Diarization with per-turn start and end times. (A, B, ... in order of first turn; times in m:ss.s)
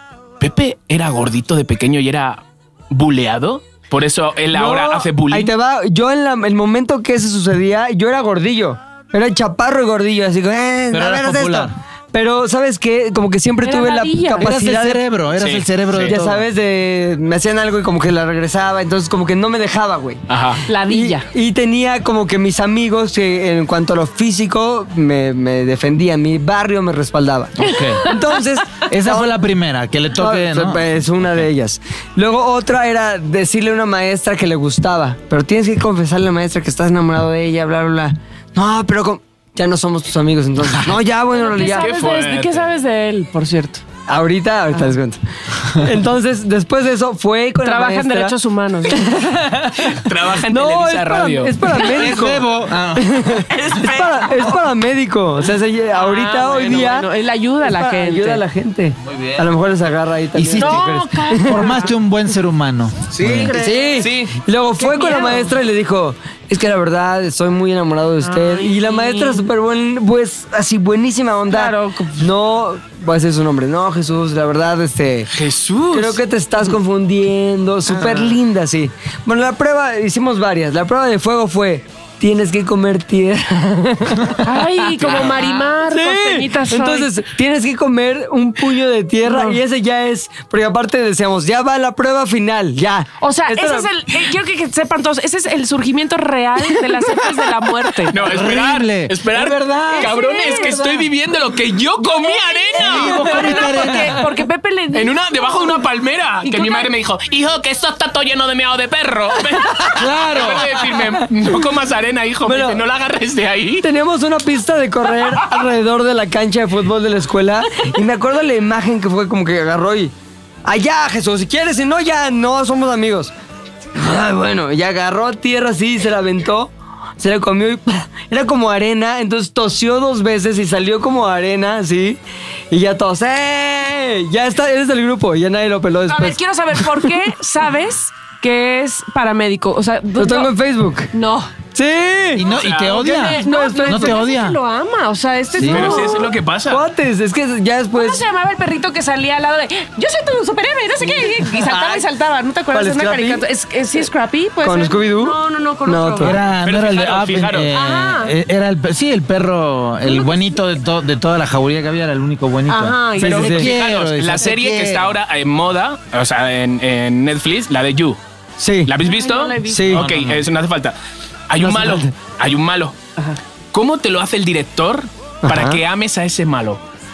0:00.4-0:05.5 A
0:04.5-0:15.0 B
0:10.9-0:11.7 C
0:13.6-0:14.5 D
0:14.4-0:16.4 C
0:15.4-0:16.2 A
0:16.0-0:20.2 B
0:20.3-0:20.6 A
0:20.7-0:21.3 D
0:20.9-0:29.3 B
0:27.6-0:28.1 C
0:28.8-0:31.4 C
0:30.2-0:41.9 B
0:41.3-0:43.8 D
0:41.6-0:42.6 A
0:44.1-0:57.1 B
0:47.6-0:49.1 D
0:49.8-0:51.8 A
0:51.9-0:53.4 C
0:53.5-0:54.6 D
0:55.9-0:58.4 D
0:57.6-1:01.8 B
0:59.0-0:59.5 C
1:00.3-1:03.6 C
1:00.6-1:01.9 D
1:03.1-1:04.3 A
1:03.3-1:04.1 D
1:03.5-1:15.3 B
1:04.8-1:05.5 D
1:08.2-1:09.4 D
1:11.5-1:12.3 D
1:15.3-1:16.2 A
1:15.9-1:33.9 B
1:17.9-1:18.3 D
1:24.4-1:27.1 D
1:25.0-1:25.6 A
1:29.2-1:29.6 D
1:33.2-1:38.2 D
1:38.1-1:43.6 A
1:38.2-1:40.2 C
1:39.9-1:41.0 D
1:42.0-1:45.8 D
1:42.8-1:44.2 C
1:43.2-1:44.1 B
1:44.9-1:53.8 A
1:46.4-1:46.9 D
1:50.0-1:50.8 C
1:50.7-1:51.2 B
1:52.4-1:52.8 B
1:53.8-2:00.1 B
2:00.6-2:03.3 B
2:04.0-2:12.2 B
2:12.7-2:17.1 B
2:16.1-2:20.5 D
2:20.2-2:21.1 B
2:21.1-2:21.5 D
2:21.7-2:22.4 B
2:22.3-2:24.6 C
2:22.5-2:23.1 A
2:23.0-2:24.2 B
2:23.1-2:26.3 D
2:25.5-2:26.0 C
2:25.6-2:26.8 A
2:26.7-2:28.2 B
2:27.9-2:36.4 D
2:31.4-2:32.1 B
2:32.7-2:33.4 B
2:34.6-2:36.4 B
2:36.2-2:45.1 C
2:36.6-2:37.7 A
2:37.7-2:38.3 D
2:40.0-2:40.4 D
2:42.7-2:43.6 D
2:43.2-2:48.2 A
2:43.2-2:43.7 B
2:48.6-2:48.9 B
2:48.8-2:51.0 A
2:49.0-2:50.0 D
2:49.6-2:50.1 B
2:49.9-2:50.4 C
2:51.5-2:53.0 A
2:51.6-2:52.1 B
2:53.7-2:56.8 A
2:55.4-2:55.8 B